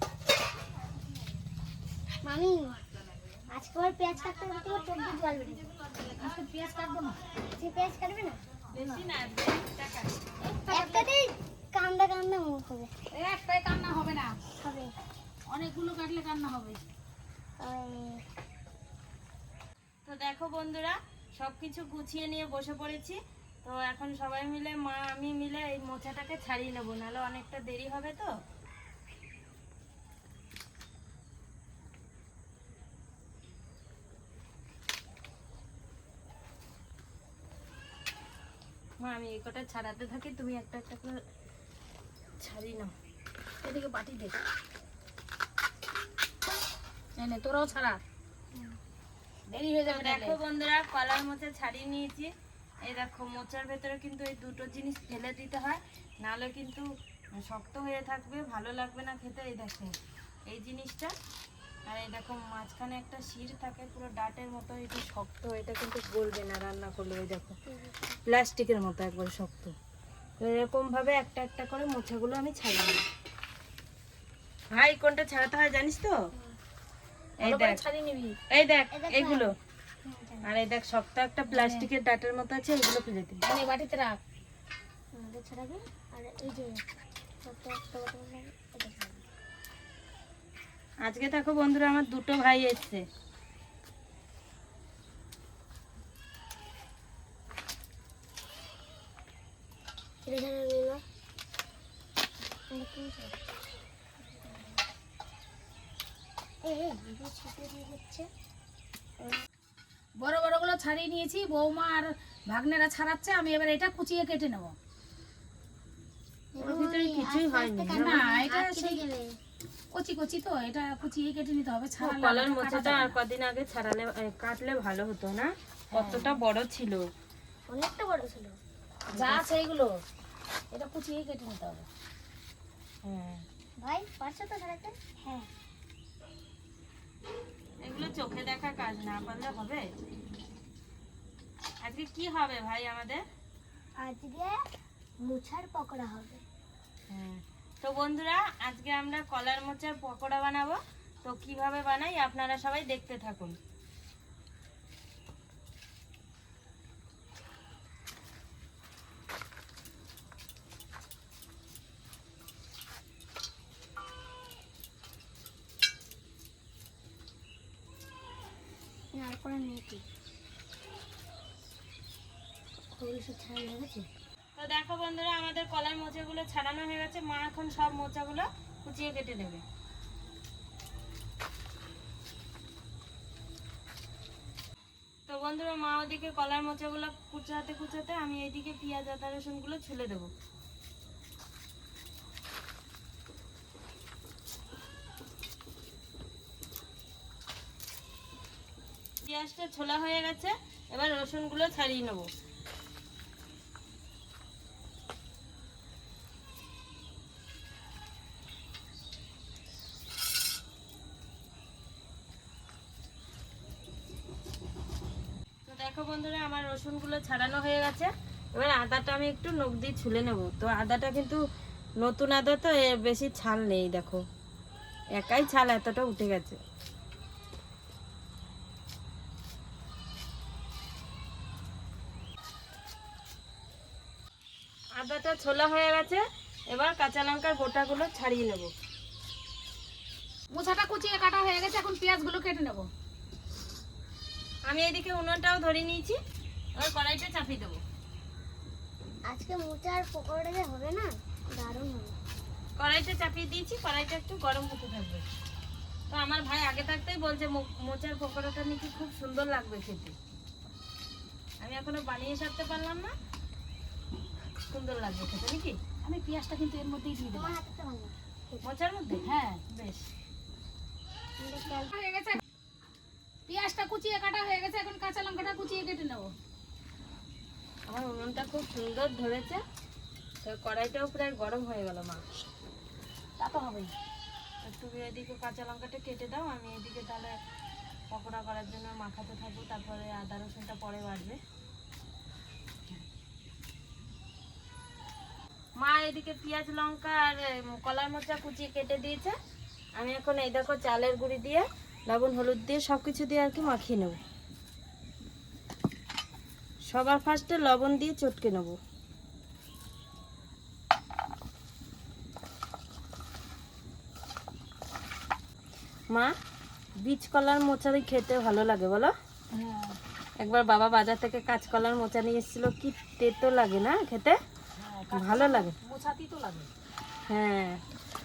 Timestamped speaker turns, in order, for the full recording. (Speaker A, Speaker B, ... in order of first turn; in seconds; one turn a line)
Speaker A: 2.2-2.8
Speaker A: 3.5-5.7
Speaker B: 6.1-7.2
Speaker A: 7.5-8.4
Speaker C: 8.7-10.2
Speaker B: 8.8-9.1
Speaker B: 10.4-11.1
Speaker A: 10.7-12.9
Speaker B: 13.1-14.4
Speaker A: 14.6-14.9
Speaker B: 15.5-16.8
Speaker A: 17.6-18.2
Speaker C: 20.0-28.3
Speaker C: 39.0-41.2
Speaker C: 42.4-42.9
Speaker B: 43.6-44.4
Speaker B: 47.1-48.0
Speaker B: 49.5-50.4
Speaker C: 49.9-52.3
Speaker C: 52.9-56.9
Speaker C: 57.4-59.9
Speaker C: 60.5-61.1
Speaker C: 61.9-67.5
Speaker A: 67.7-68.2
Speaker C: 68.3-69.7
Speaker C: 70.4-73.0
Speaker C: 74.7-76.2
Speaker C: 77.4-77.8
Speaker B: 77.4-78.3
Speaker C: 78.5-79.5
Speaker A: 78.9-79.5
Speaker A: 80.0-80.5
Speaker C: 80.4-83.4
Speaker B: 81.5-81.9
Speaker B: 83.4-84.2
Speaker A: 85.1-86.8
Speaker A: 87.4-89.2
Speaker C: 91.0-93.0
Speaker A: 100.2-101.0
Speaker A: 102.7-103.4
Speaker A: 104.2-104.8
Speaker A: 106.6-108.3
Speaker B: 110.2-114.7
Speaker A: 116.5-119.4
Speaker C: 116.6-118.2
Speaker B: 117.9-119.0
Speaker B: 119.9-123.2
Speaker C: 122.0-127.1
Speaker B: 125.9-126.4
Speaker A: 127.7-128.6
Speaker B: 129.1-130.0
Speaker C: 129.1-129.4
Speaker B: 130.7-131.8
Speaker C: 133.0-133.4
Speaker A: 133.8-135.4
Speaker C: 137.8-139.8
Speaker C: 141.8-143.2
Speaker A: 144.0-144.6
Speaker A: 145.2-146.4
Speaker C: 147.1-153.6
Speaker A: 169.1-170.0
Speaker A: 172.9-174.1
Speaker C: 174.6-179.6
Speaker C: 185.3-190.3
Speaker C: 199.2-202.3
Speaker C: 215.7-221.4
Speaker C: 222.0-224.2
Speaker C: 225.1-226.6
Speaker C: 235.0-238.7
Speaker B: 240.5-242.9
Speaker C: 244.7-246.2
Speaker C: 246.8-247.8
Speaker A: 249.3-252.2
Speaker C: 252.8-255.2
Speaker C: 256.1-260.1
Speaker C: 261.6-263.1
Speaker C: 264.7-265.8
Speaker B: 266.0-267.6
Speaker A: 267.2-268.6
Speaker C: 268.6-270.1
Speaker B: 269.2-269.6
Speaker A: 271.4-271.9
Speaker B: 271.9-272.4
Speaker B: 273.5-276.3
Speaker C: 277.9-279.6
Speaker C: 280.4-282.2
Speaker B: 283.4-283.9
Speaker C: 284.6-287.4
Speaker C: 288.1-291.4
Speaker C: 295.8-299.4
Speaker C: 299.9-304.2
Speaker C: 306.9-308.8
Speaker C: 317.0-319.1
Speaker B: 319.5-320.0
Speaker C: 320.4-324.4
Speaker B: 324.8-326.7
Speaker C: 325.1-325.7
Speaker C: 327.3-327.8